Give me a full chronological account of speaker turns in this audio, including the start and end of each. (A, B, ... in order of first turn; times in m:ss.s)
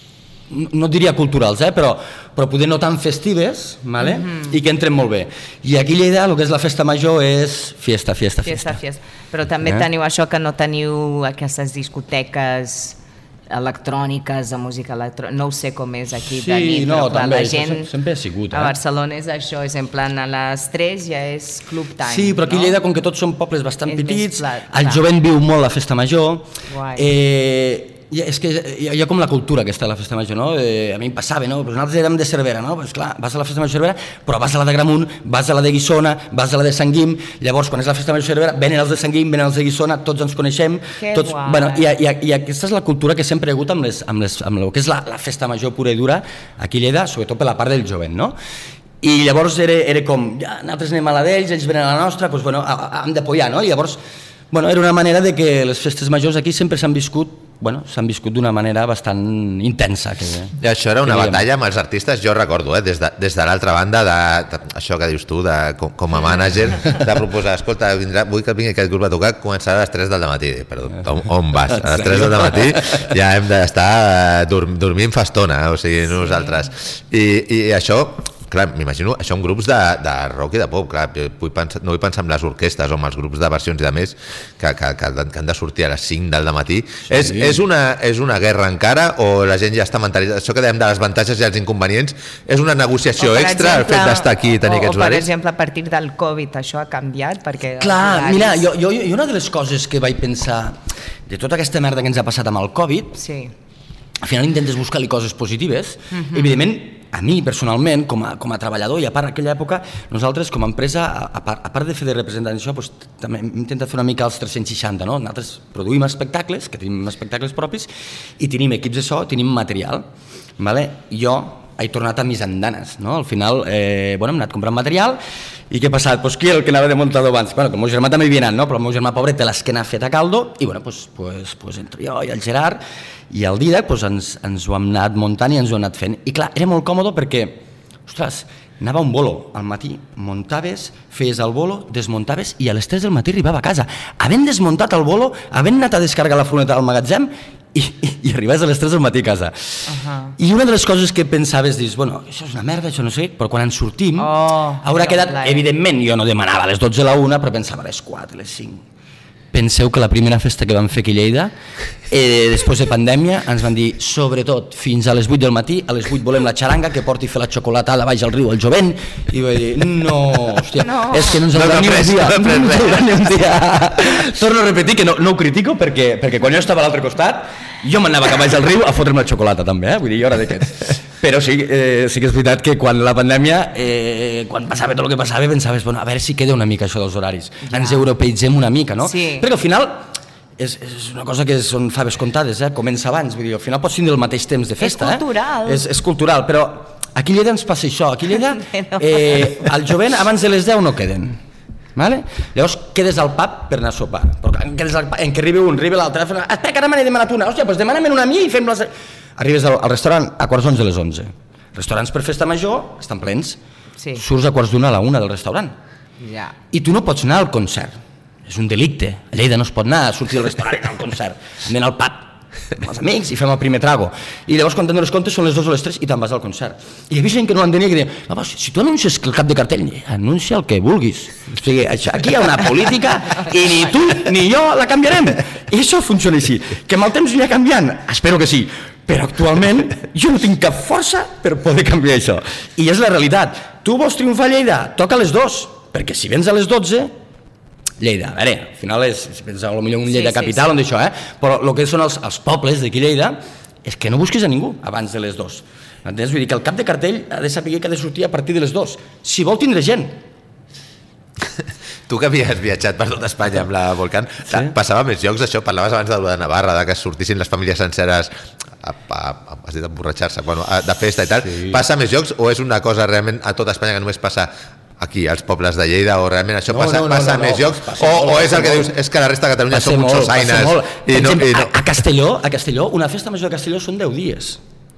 0:00.5-0:08.8 A
0:04.0-0:04.6 B
0:08.4-0:13.0 B
0:13.5-0:17.9 B
0:16.4-0:18.8 A
0:18.5-0:22.8 B
0:22.0-0:48.4 A
0:23.9-0:25.0 B
0:26.7-0:27.1 B
0:41.0-0:41.9 B
0:49.0-0:54.0 A
0:54.5-1:00.5 A
1:00.6-1:35.3 C
1:01.0-1:01.4 A
1:11.8-1:13.1 A
1:16.2-1:16.5 B
1:27.1-1:27.6 A
1:33.2-1:38.7 B
1:37.8-1:43.2 A
1:43.2-1:43.5 B
1:44.2-2:00.1 A
1:46.1-1:46.7 B
2:00.6-2:05.2 A
2:05.7-2:29.8 A
2:29.9-2:30.4 B
2:30.4-2:38.8 A
2:34.2-2:35.6 B
2:39.5-2:41.5 A
2:42.1-3:21.4 A
2:50.8-2:51.4 B
2:51.5-2:53.0 C
3:07.7-3:08.1 B
3:09.0-3:09.5 B
3:14.8-3:15.8 B
3:18.6-3:19.3 B
3:22.0-3:33.6 A
3:34.2-3:35.8 A
3:36.2-3:36.6 B
3:36.7-3:38.0 A
3:38.5-4:07.1 A
4:08.0-4:20.2 A
4:10.1-4:10.7 B
4:21.6-4:41.8 C
4:31.4-4:31.8 A
4:36.7-4:38.9 A
4:39.7-4:44.6 A